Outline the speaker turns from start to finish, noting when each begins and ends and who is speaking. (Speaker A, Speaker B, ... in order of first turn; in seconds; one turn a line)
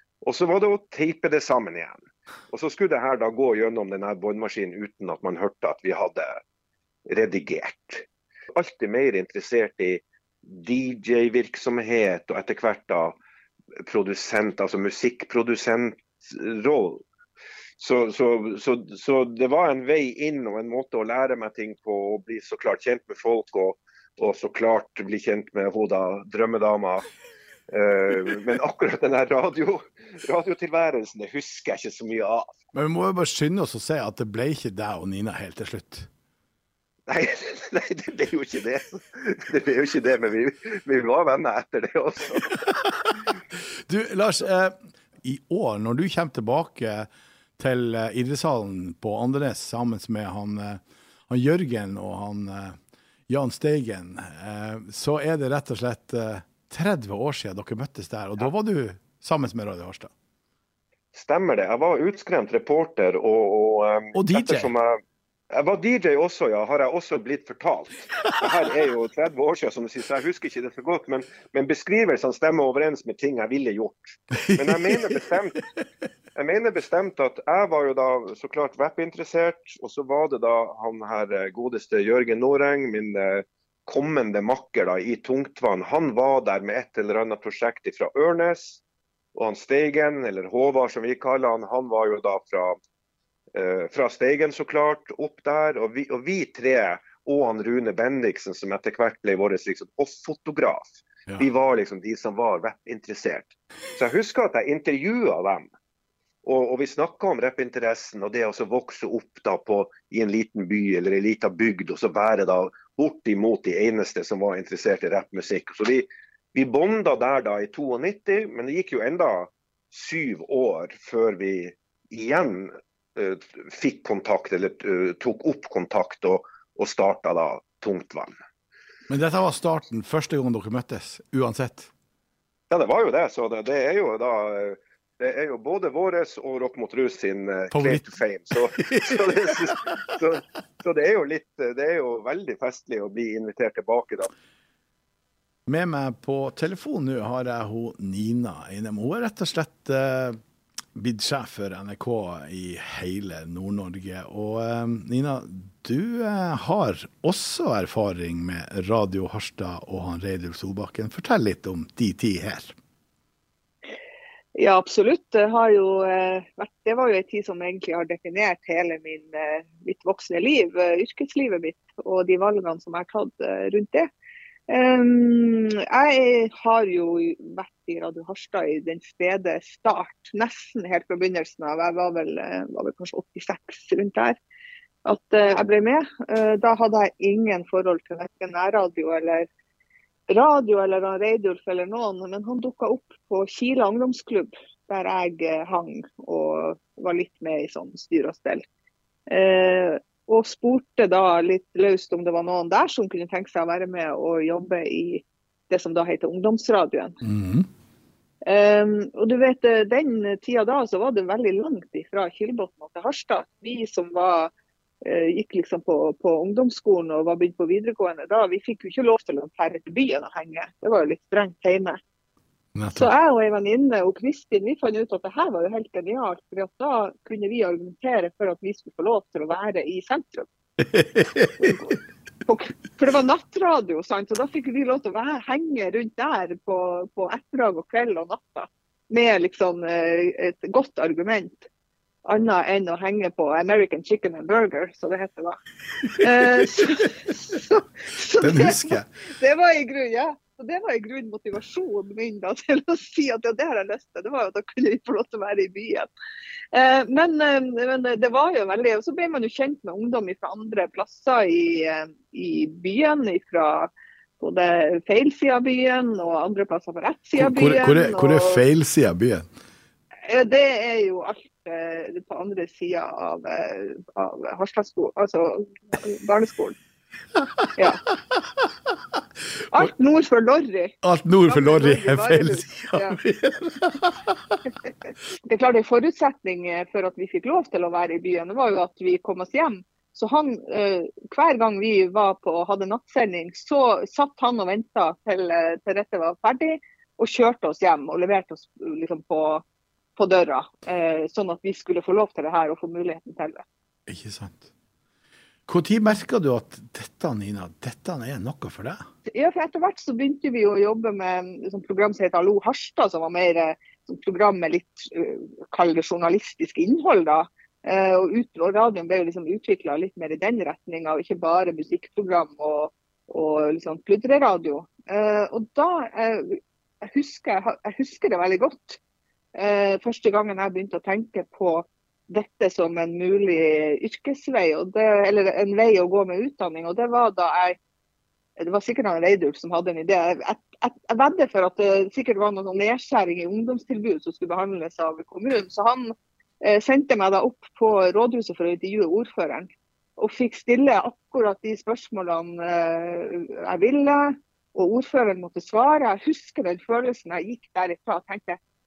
Speaker A: 0.2-6.4
Speaker A: 7.1-13.2
Speaker A: 13.9-17.0
Speaker A: 17.8-27.0
Speaker A: 27.7-32.5
Speaker B: 32.7-36.1
Speaker A: 37.1-42.5
Speaker B: 43.9-52.8
Speaker B: 53.3-60.1
Speaker A: 61.1-65.0
Speaker B: 64.1-64.7
Speaker A: 65.5-75.6
Speaker B: 68.2-68.5
Speaker B: 74.4-75.3
Speaker A: 76.3-88.8
Speaker A: 89.3-92.8
Speaker A: 93.5-105.7
Speaker A: 106.4-128.3
Speaker B: 129.1-131.9
Speaker A: 132.7-144.3
Speaker B: 137.7-140.2
Speaker B: 145.7-150.4
Speaker B: 150.9-162.7
Speaker C: 164.6-174.1
Speaker C: 174.7-184.4
Speaker C: 185.0-189.5
Speaker C: 190.3-198.6
Speaker C: 199.3-207.2
Speaker B: 207.2-207.7
Speaker C: 208.4-214.5
Speaker C: 215.0-222.0
Speaker B: 222.7-223.1
Speaker C: 222.9-230.4
Speaker B: 230.8-231.7
Speaker C: 231.6-241.7
Speaker C: 242.2-245.6
Speaker C: 246.2-256.1
Speaker B: 248.4-249.1
Speaker C: 256.7-268.7
Speaker B: 267.4-269.5
Speaker C: 270.2-276.8
Speaker B: 277.4-278.7
Speaker C: 279.7-283.2
Speaker B: 281.0-284.6
Speaker C: 285.4-299.6
Speaker C: 300.2-303.6
Speaker B: 304.1-304.7
Speaker B: 305.7-309.0
Speaker C: 309.3-326.6
Speaker C: 327.1-329.0
Speaker C: 329.6-337.8
Speaker C: 338.6-358.6